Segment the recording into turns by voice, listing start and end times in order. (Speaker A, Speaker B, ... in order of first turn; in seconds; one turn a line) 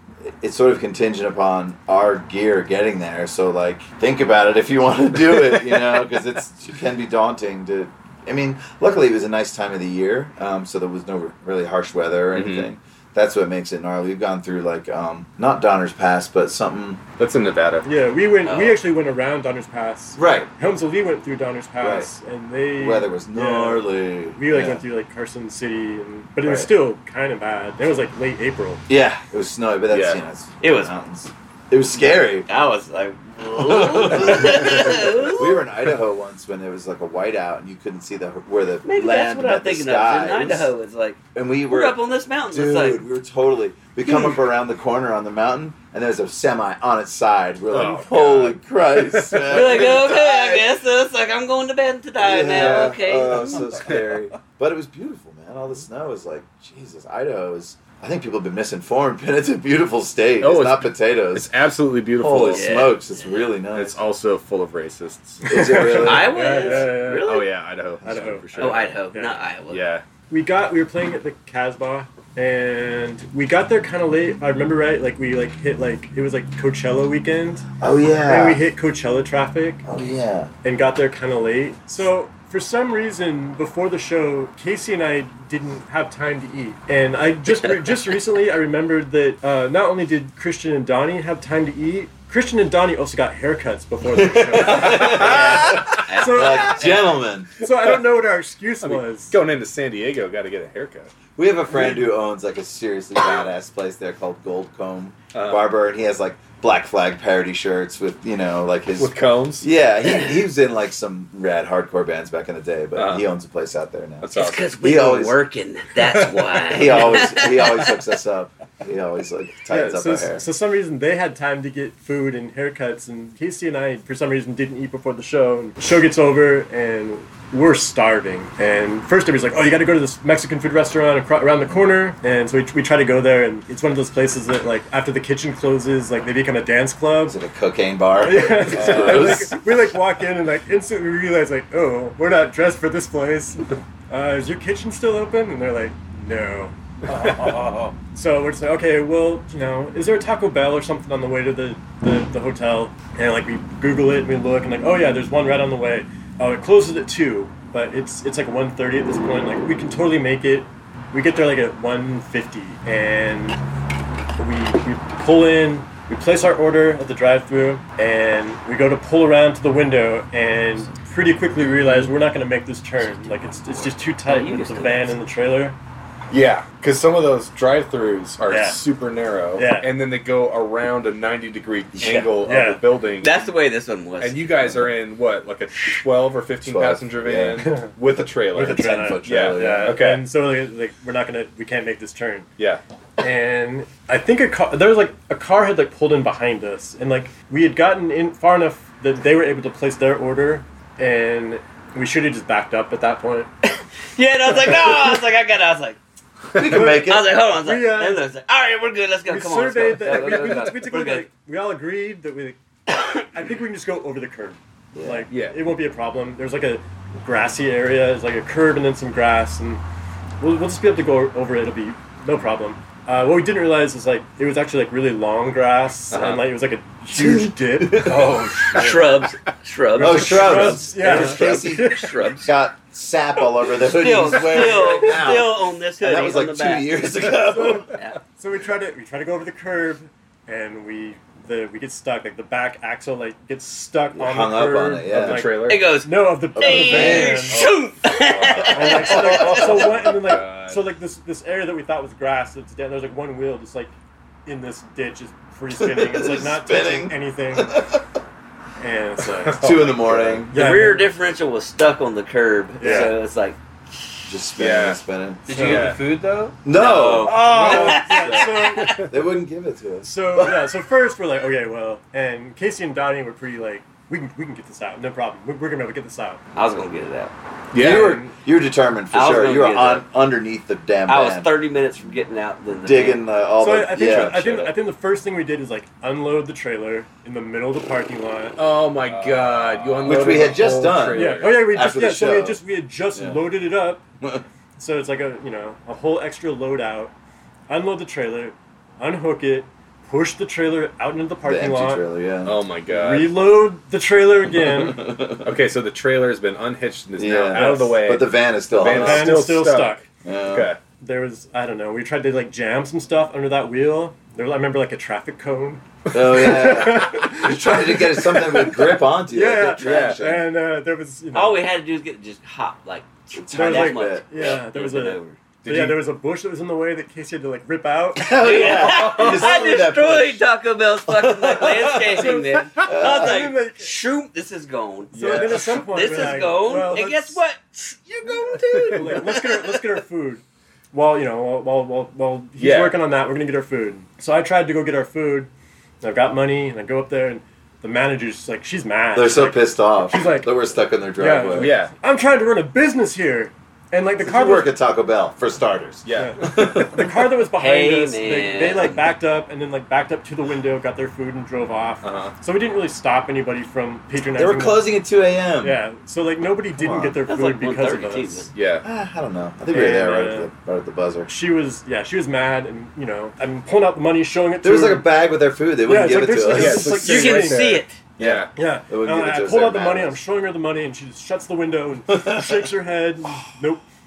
Speaker A: 0.2-17.0
Speaker B: 12.3-12.7
Speaker B: 17.2-17.9
Speaker C: 17.8-28.8
Speaker D: 18.4-18.8
Speaker A: 20.1-20.5
Speaker A: 21.8-22.1
Speaker A: 22.8-24.8
Speaker A: 26.4-26.7
Speaker A: 28.9-32.5
Speaker B: 29.9-30.2
Speaker D: 30.6-30.9
Speaker D: 32.0-35.6
Speaker A: 33.5-40.7
Speaker D: 38.8-43.0
Speaker A: 41.3-42.0
Speaker A: 42.5-50.7
Speaker B: 47.7-49.9
Speaker D: 49.5-53.6
Speaker A: 52.2-61.5
Speaker B: 52.5-54.2
Speaker B: 60.4-62.7
Speaker A: 62.1-64.0
Speaker D: 62.4-63.0
Speaker B: 63.7-65.5
Speaker C: 65.4-67.4
Speaker A: 65.5-66.5
Speaker D: 65.8-67.5
Speaker B: 66.6-69.0
Speaker C: 68.0-69.5
Speaker D: 68.5-69.8
Speaker B: 69.7-70.0
Speaker C: 70.3-77.7
Speaker A: 77.8-78.6
Speaker C: 78.2-79.8
Speaker A: 79.8-80.5
Speaker C: 80.6-99.4
Speaker A: 94.1-97.6
Speaker D: 95.1-97.0
Speaker B: 98.8-101.1
Speaker A: 101.3-115.4
Speaker B: 105.3-105.7
Speaker B: 109.0-109.7
Speaker B: 112.9-113.2
Speaker B: 114.2-114.7
Speaker D: 114.3-117.9
Speaker A: 116.7-120.5
Speaker C: 119.7-137.4
Speaker A: 137.2-139.6
Speaker C: 138.2-163.6
Speaker B: 138.7-139.5
Speaker C: 164.4-175.8
Speaker D: 174.1-175.2
Speaker B: 176.3-183.5
Speaker C: 178.5-178.8
Speaker C: 179.5-179.9
Speaker A: 181.9-182.3
Speaker C: 182.4-182.8
Speaker D: 183.2-184.6
Speaker B: 184.2-190.3
Speaker A: 186.6-187.7
Speaker C: 187.6-187.9
Speaker C: 188.5-192.5
Speaker A: 188.6-190.0
Speaker C: 193.2-203.5
Speaker D: 204.1-206.0
Speaker A: 206.5-207.3
Speaker C: 206.7-208.2
Speaker D: 206.8-211.3
Speaker C: 209.2-212.6
Speaker B: 210.3-210.6
Speaker D: 212.9-213.2
Speaker C: 213.2-219.8
Speaker A: 214.9-215.3
Speaker B: 215.3-215.7
Speaker C: 220.4-228.9
Speaker B: 226.1-226.5
Speaker A: 227.1-228.4
Speaker D: 228.7-232.5
Speaker C: 229.9-232.3
Speaker A: 230.0-237.9
Speaker D: 233.7-237.2
Speaker C: 237.3-247.8
Speaker D: 237.9-238.2
Speaker A: 244.1-245.5
Speaker B: 245.1-245.9
Speaker D: 245.6-250.0
Speaker A: 246.5-247.5
Speaker B: 247.5-250.8
Speaker C: 248.5-253.9
Speaker C: 254.4-257.8
Speaker A: 255.8-258.0
Speaker C: 258.8-259.9
Speaker B: 259.4-260.4
Speaker A: 259.6-260.5
Speaker C: 260.5-261.1
Speaker D: 260.5-263.6
Speaker C: 262.8-263.2
Speaker A: 262.8-263.1
Speaker A: 264.2-265.4
Speaker B: 264.6-265.0
Speaker E: 265.5-266.5
Speaker C: 265.5-266.0
Speaker B: 265.5-266.0
Speaker A: 266.6-267.9
Speaker D: 266.7-269.1
Speaker C: 267.2-269.1
Speaker A: 269.0-270.6
Speaker C: 270.0-276.4
Speaker D: 276.5-277.3
Speaker B: 277.7-278.2
Speaker A: 277.7-281.5
Speaker C: 277.8-278.3
Speaker D: 279.1-280.1
Speaker D: 281.1-283.2
Speaker A: 282.8-284.7
Speaker C: 283.6-288.6
Speaker B: 288.6-291.7
Speaker E: 289.1-290.3
Speaker A: 290.0-292.6
Speaker C: 291.0-294.0
Speaker A: 293.1-293.4
Speaker C: 294.8-297.1
Speaker C: 297.7-302.1
Speaker A: 301.4-302.6
Speaker B: 302.4-303.4
Speaker C: 302.9-305.2
Speaker A: 304.8-305.5
Speaker B: 305.4-310.8
Speaker A: 307.2-309.4
Speaker C: 307.5-308.1
Speaker C: 308.8-310.1
Speaker A: 310.2-310.7
Speaker C: 311.0-321.6
Speaker A: 316.1-320.4
Speaker B: 319.8-320.2
Speaker D: 321.3-325.4
Speaker A: 323.3-324.6
Speaker C: 323.5-329.0
Speaker B: 325.6-326.1
Speaker A: 328.1-330.4
Speaker D: 328.3-337.9
Speaker A: 331.2-332.2
Speaker C: 332.1-333.9
Speaker A: 332.9-333.4
Speaker C: 335.1-337.4
Speaker B: 335.1-335.6
Speaker C: 338.2-345.5
Speaker B: 338.7-339.3
Speaker B: 342.6-343.0
Speaker C: 346.0-350.6
Speaker A: 349.1-351.7
Speaker C: 351.1-354.7
Speaker B: 351.6-351.9
Speaker A: 354.2-357.0
Speaker B: 356.0-357.0
Speaker C: 356.1-364.9
Speaker D: 357.5-359.1
Speaker B: 362.0-362.3
Speaker A: 364.3-365.8
Speaker C: 365.6-368.5
Speaker A: 366.7-367.2
Speaker D: 367.3-368.5
Speaker B: 368.5-368.9
Speaker A: 368.8-371.3
Speaker C: 369.7-370.5
Speaker C: 371.3-375.1
Speaker A: 374.6-377.1
Speaker C: 375.8-377.8
Speaker B: 376.5-378.5
Speaker D: 376.9-378.0
Speaker A: 378.2-380.2
Speaker C: 378.5-383.8
Speaker A: 382.1-382.6